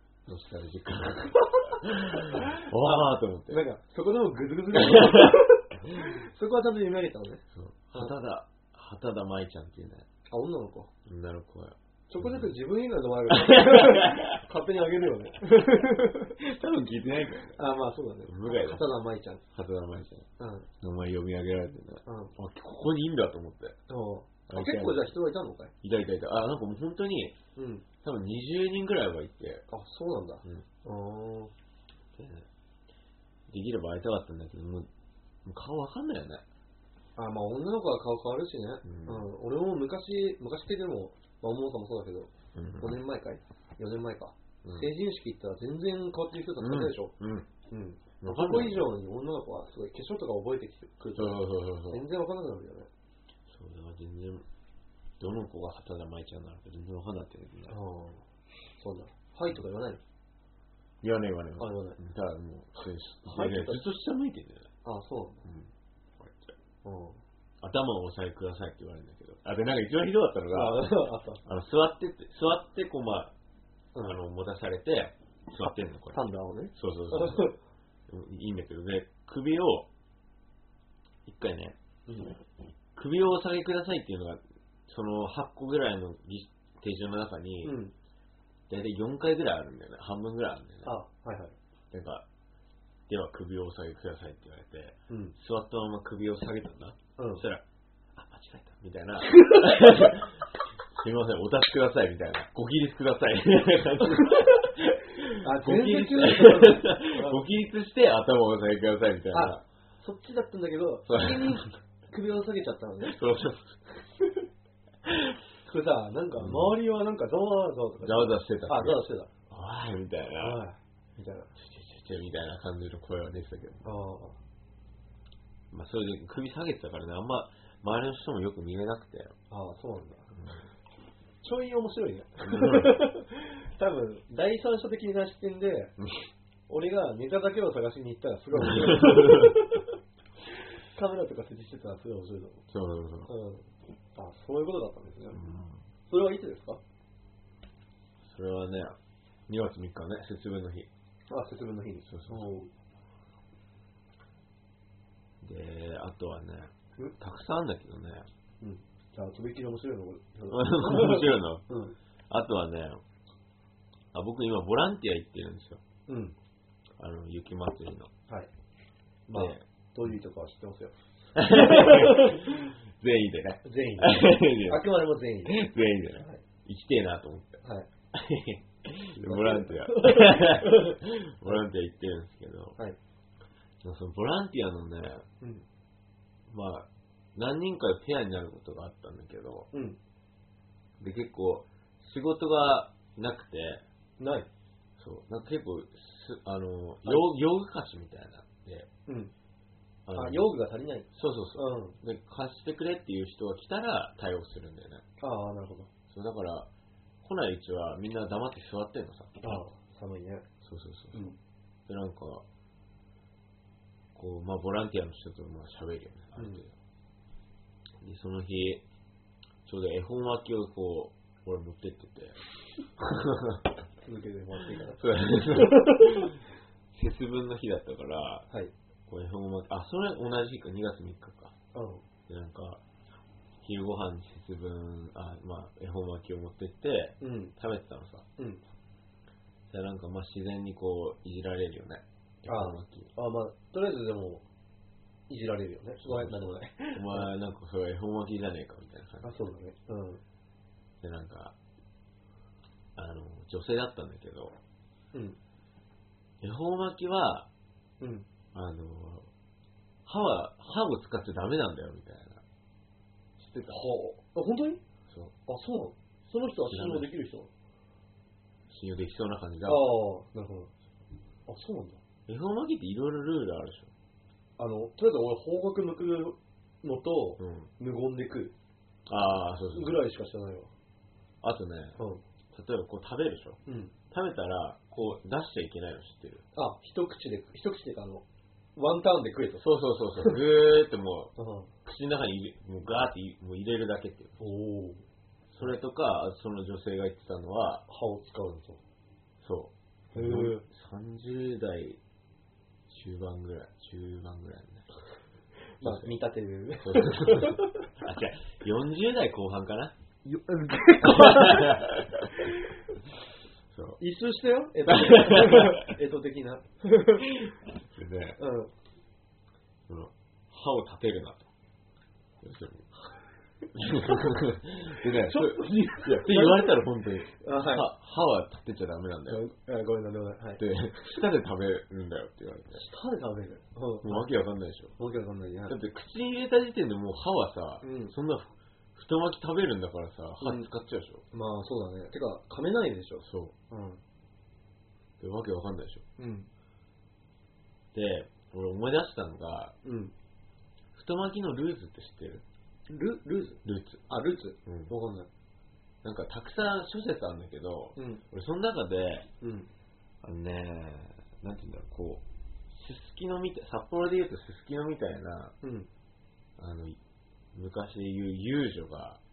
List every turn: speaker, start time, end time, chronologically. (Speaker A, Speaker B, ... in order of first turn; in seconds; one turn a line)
Speaker A: 0.3-3.6
Speaker B: 1.7-8.1
Speaker A: 4.7-5.5
Speaker A: 7.5-10.1
Speaker B: 10.3-10.9
Speaker A: 11.1-12.5
Speaker B: 12.1-16.4
Speaker A: 13.3-14.4
Speaker A: 16.4-17.6
Speaker B: 17.5-19.4
Speaker A: 18.2-20.3
Speaker B: 20.4-20.7
Speaker A: 20.8-23.8
Speaker B: 22.1-22.3
Speaker B: 23.9-25.7
Speaker A: 24.5-25.1
Speaker A: 25.8-27.4
Speaker B: 27.6-27.8
Speaker A: 28.0-29.6
Speaker B: 29.7-31.5
Speaker A: 32.1-32.5
Speaker A: 33.5-34.9
Speaker A: 35.4-36.4
Speaker B: 37.1-47.1
Speaker A: 38.8-39.3
Speaker A: 42.5-43.0
Speaker A: 46.6-47.5
Speaker B: 47.7-52.9
Speaker A: 48.2-48.9
Speaker A: 51.1-52.0
Speaker A: 53.5-54.4
Speaker A: 55.2-57.8
Speaker B: 57.7-58.2
Speaker B: 58.8-60.0
Speaker A: 61.0-64.7
Speaker B: 61.6-62.0
Speaker B: 62.8-63.8
Speaker B: 64.8-65.4
Speaker A: 65.4-66.5
Speaker B: 66.8-67.2
Speaker A: 67.6-73.3
Speaker B: 70.5-71.4
Speaker A: 74.0-76.2
Speaker B: 76.1-77.6
Speaker A: 76.7-77.5
Speaker A: 78.1-79.9
Speaker A: 81.2-81.8
Speaker B: 82.1-82.4
Speaker A: 83.0-87.8
Speaker B: 87.6-87.9
Speaker A: 88.7-90.9
Speaker B: 90.8-91.5
Speaker A: 91.9-92.2
Speaker A: 93.1-97.6
Speaker B: 95.1-95.3
Speaker B: 97.2-97.4
Speaker A: 98.1-109.6
Speaker B: 99.3-100.0
Speaker B: 104.1-104.6
Speaker B: 105.3-107.4
Speaker B: 109.3-113.2
Speaker A: 111.1-111.7
Speaker A: 113.0-114.0
Speaker A: 115.0-115.4
Speaker B: 115.6-119.3
Speaker A: 116.3-116.8
Speaker A: 118.0-120.6
Speaker B: 120.4-121.5
Speaker A: 121.5-123.8
Speaker B: 123.8-124.4
Speaker A: 125.7-129.3
Speaker B: 129.5-130.3
Speaker B: 131.4-135.9
Speaker A: 132.4-133.0
Speaker B: 136.7-139.9
Speaker A: 138.6-139.6
Speaker B: 140.9-142.6
Speaker A: 142.7-143.3
Speaker B: 143.3-145.4
Speaker A: 145.3-145.8
Speaker B: 146.1-146.8
Speaker A: 148.2-148.9
Speaker A: 149.5-150.9
Speaker B: 151.3-152.7
Speaker A: 152.1-152.5
Speaker A: 155.4-158.3
Speaker B: 158.6-161.9
Speaker A: 160.5-161.6
Speaker A: 162.3-163.0
Speaker A: 164.1-165.8
Speaker B: 166.1-166.3
Speaker A: 167.0-168.1
Speaker B: 169.3-172.5
Speaker A: 169.3-169.6
Speaker A: 171.3-182.8
Speaker B: 173.6-175.6
Speaker B: 176.2-176.4
Speaker B: 177.6-177.9
Speaker B: 179.1-181.6
Speaker A: 183.8-185.2
Speaker A: 186.5-189.7
Speaker B: 189.7-190.0
Speaker A: 191.0-193.8
Speaker B: 194.2-194.5
Speaker A: 195.0-198.9
Speaker B: 199.1-199.3
Speaker A: 200.1-200.5
Speaker B: 200.1-202.0
Speaker A: 201.1-205.0
Speaker B: 205.2-205.9
Speaker A: 206.1-206.7
Speaker A: 207.2-209.6
Speaker B: 209.4-210.4
Speaker A: 210.6-211.3
Speaker A: 211.9-212.4
Speaker A: 214.1-216.7
Speaker B: 216.4-216.6
Speaker A: 218.0-218.8
Speaker A: 219.7-222.4
Speaker A: 223.0-223.7
Speaker B: 224.0-226.3
Speaker A: 224.9-228.5
Speaker A: 229.1-231.5
Speaker B: 231.7-232.0
Speaker A: 232.3-232.8
Speaker A: 233.6-238.2
Speaker B: 237.2-237.5
Speaker B: 238.4-238.6
Speaker A: 239.7-243.1
Speaker B: 242.5-244.4
Speaker B: 245.3-247.3
Speaker A: 246.0-249.5
Speaker B: 249.2-250.2
Speaker A: 251.0-251.5
Speaker A: 252.9-254.6
Speaker A: 256.4-257.5
Speaker B: 258.0-258.3
Speaker A: 258.5-259.3
Speaker A: 260.0-262.4
Speaker A: 263.4-263.8
Speaker B: 263.6-264.8
Speaker A: 265.1-265.3
Speaker B: 265.5-267.5
Speaker A: 266.6-267.1
Speaker A: 268.7-269.9
Speaker B: 269.6-270.7
Speaker B: 271.5-272.0
Speaker A: 272.3-273.9
Speaker B: 274.6-278.5
Speaker A: 277.4-277.7
Speaker A: 279.1-280.0
Speaker B: 279.7-280.7
Speaker A: 281.4-282.0
Speaker B: 282.0-282.2
Speaker A: 282.5-283.6
Speaker B: 283.6-283.9
Speaker A: 284.1-286.4
Speaker B: 286.5-288.2
Speaker B: 288.8-289.7
Speaker A: 289.6-291.3
Speaker B: 291.4-291.7
Speaker A: 291.8-294.4
Speaker B: 294.4-295.0
Speaker A: 295.5-297.8
Speaker B: 297.9-298.8
Speaker A: 299.4-302.0
Speaker B: 300.1-300.6
Speaker A: 302.9-304.9
Speaker B: 305.8-307.9
Speaker A: 305.8-306.2
Speaker A: 306.8-309.9
Speaker B: 310.2-312.7
Speaker A: 311.0-312.5
Speaker A: 313.7-314.0
Speaker B: 314.0-317.3
Speaker A: 314.9-315.9
Speaker A: 317.4-318.4
Speaker B: 318.4-318.7
Speaker A: 319.9-321.5
Speaker A: 322.4-322.9
Speaker A: 323.7-329.4
Speaker B: 325.1-326.8
Speaker B: 327.3-327.9
Speaker B: 329.3-330.6
Speaker A: 330.6-332.8
Speaker B: 332.7-334.3
Speaker A: 334.0-334.9
Speaker B: 335.0-335.8
Speaker A: 335.7-341.2
Speaker B: 337.8-338.1
Speaker B: 340.4-340.7
Speaker B: 341.3-344.0
Speaker A: 343.2-343.5
Speaker A: 345.2-346.0
Speaker B: 346.2-346.5
Speaker A: 347.9-349.8
Speaker B: 349.8-350.1
Speaker A: 350.9-352.4
Speaker B: 352.9-355.3
Speaker A: 353.6-354.0
Speaker A: 354.6-354.9
Speaker A: 356.0-359.3
Speaker B: 357.9-358.2
Speaker B: 359.4-359.7
Speaker A: 360.2-365.5
Speaker B: 365.6-365.9
Speaker A: 366.6-367.0
Speaker A: 367.5-369.2